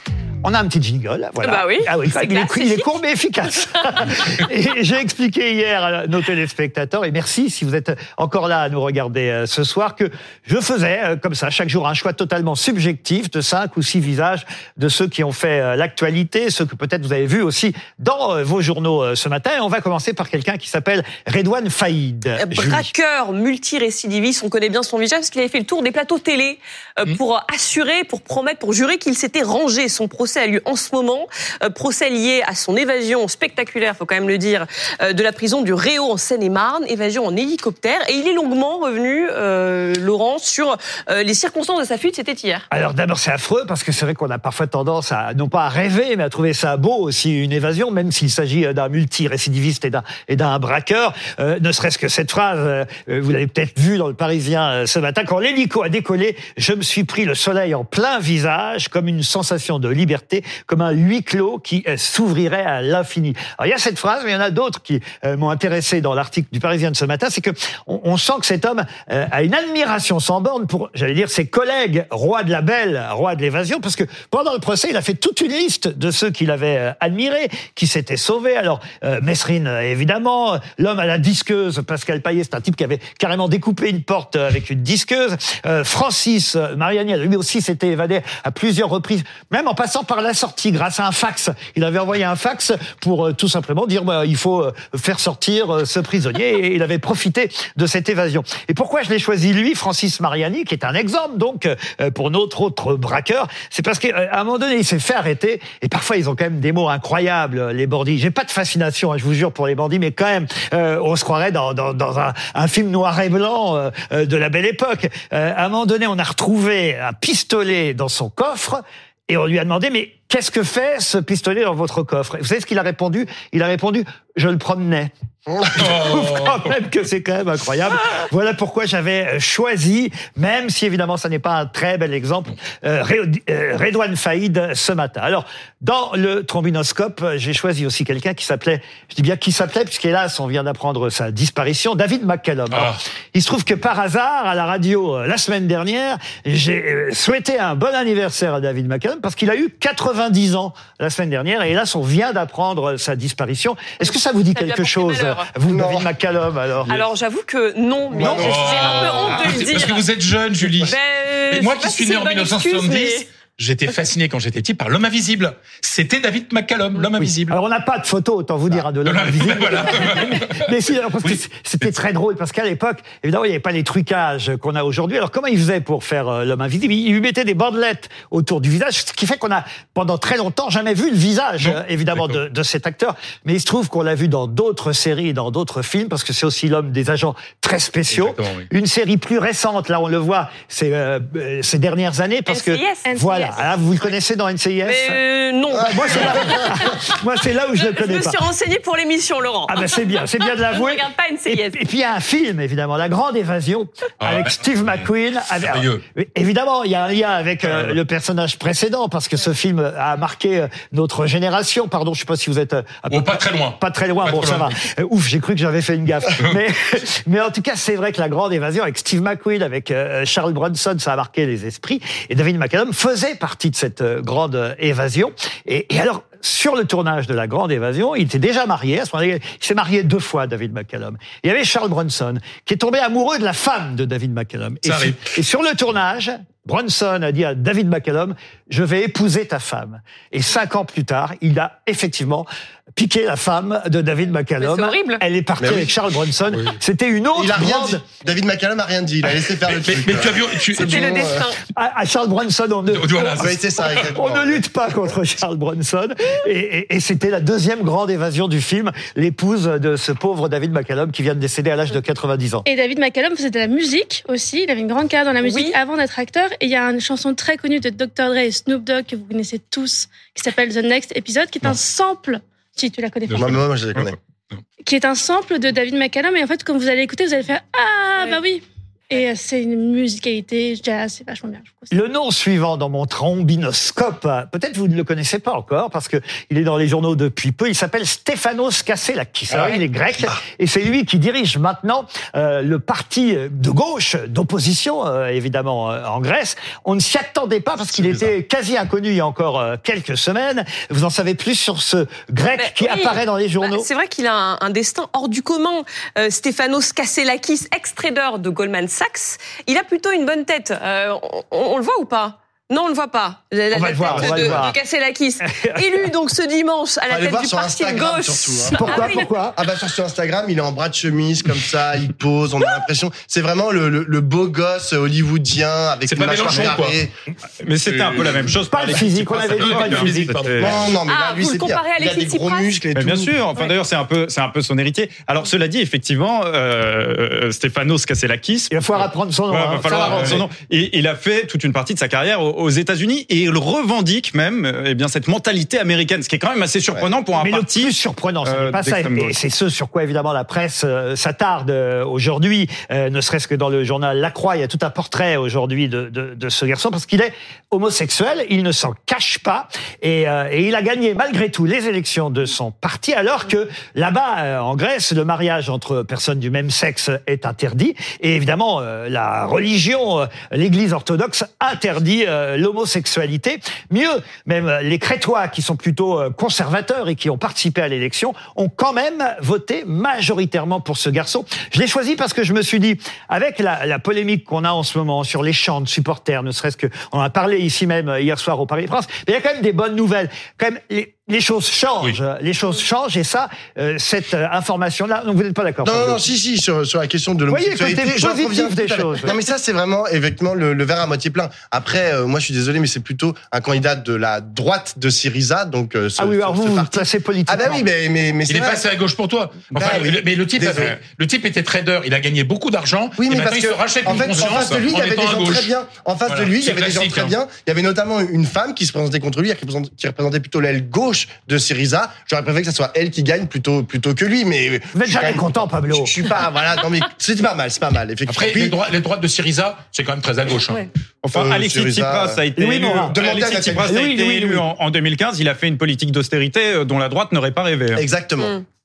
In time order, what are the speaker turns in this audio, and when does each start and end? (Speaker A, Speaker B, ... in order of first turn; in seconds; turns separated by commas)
Speaker A: 0.4-22.9, Speaker B: 1.4-2.9, Speaker B: 22.4-42.7, Speaker A: 42.7-157.0, Speaker C: 125.7-126.7, Speaker C: 142.7-143.0, Speaker B: 154.0-155.5, Speaker D: 155.7-156.1, Speaker B: 156.9-160.1, Speaker D: 158.1-159.9, Speaker C: 158.2-161.0, Speaker B: 160.8-163.3, Speaker C: 161.5-167.6, Speaker A: 167.5-195.2, Speaker C: 169.0-170.6, Speaker C: 181.6-182.4, Speaker C: 188.1-188.7, Speaker B: 192.5-193.7, Speaker E: 193.1-193.8, Speaker B: 194.8-201.8, Speaker D: 195.7-196.8, Speaker A: 195.7-198.4, Speaker A: 199.7-248.0, Speaker C: 204.2-206.0, Speaker C: 213.1-214.8, Speaker C: 234.8-235.2, Speaker B: 244.6-245.2, Speaker D: 245.6-245.9, Speaker D: 247.3-251.5, Speaker C: 249.7-251.2, Speaker B: 250.8-251.6, Speaker A: 251.8-262.6, Speaker C: 252.9-254.2, Speaker D: 253.4-254.6, Speaker E: 262.6-273.6, Speaker B: 265.4-265.8, Speaker C: 273.3-274.6, Speaker D: 273.3-274.1, Speaker E: 274.8-281.9, Speaker A: 281.9-303.9, Speaker D: 297.9-298.3, Speaker B: 302.6-319.3, Speaker A: 313.7-314.8, Speaker D: 314.1-314.7, Speaker A: 315.4-316.1, Speaker D: 317.1-327.1, Speaker A: 318.7-319.6, Speaker C: 326.1-327.0, Speaker F: 326.3-326.8, Speaker F: 327.6-330.9, Speaker D: 327.9-328.5, Speaker A: 328.7-330.5, Speaker C: 329.3-330.9, Speaker D: 330.6-333.4, Speaker B: 331.1-332.8, Speaker F: 332.9-338.8, Speaker A: 338.7-340.4, Speaker F: 339.5-347.9, Speaker C: 339.9-340.4, Speaker A: 347.4-396.3, Speaker F: 348.4-349.4, Speaker D: 395.8-408.8, Speaker A: 397.5-399.4, Speaker A: 406.2-407.9, Speaker C: 408.5-415.7, Speaker D: 409.7-411.0, Speaker D: 413.2-428.8, Speaker C: 416.3-417.4, Speaker A: 424.9-426.1, Speaker C: 428.3-430.9, Speaker F: 431.2-438.0, Speaker D: 431.3-432.4, Speaker A: 432.6-433.1, Speaker D: 433.1-434.1, Speaker A: 433.9-434.6, Speaker D: 438.0-438.6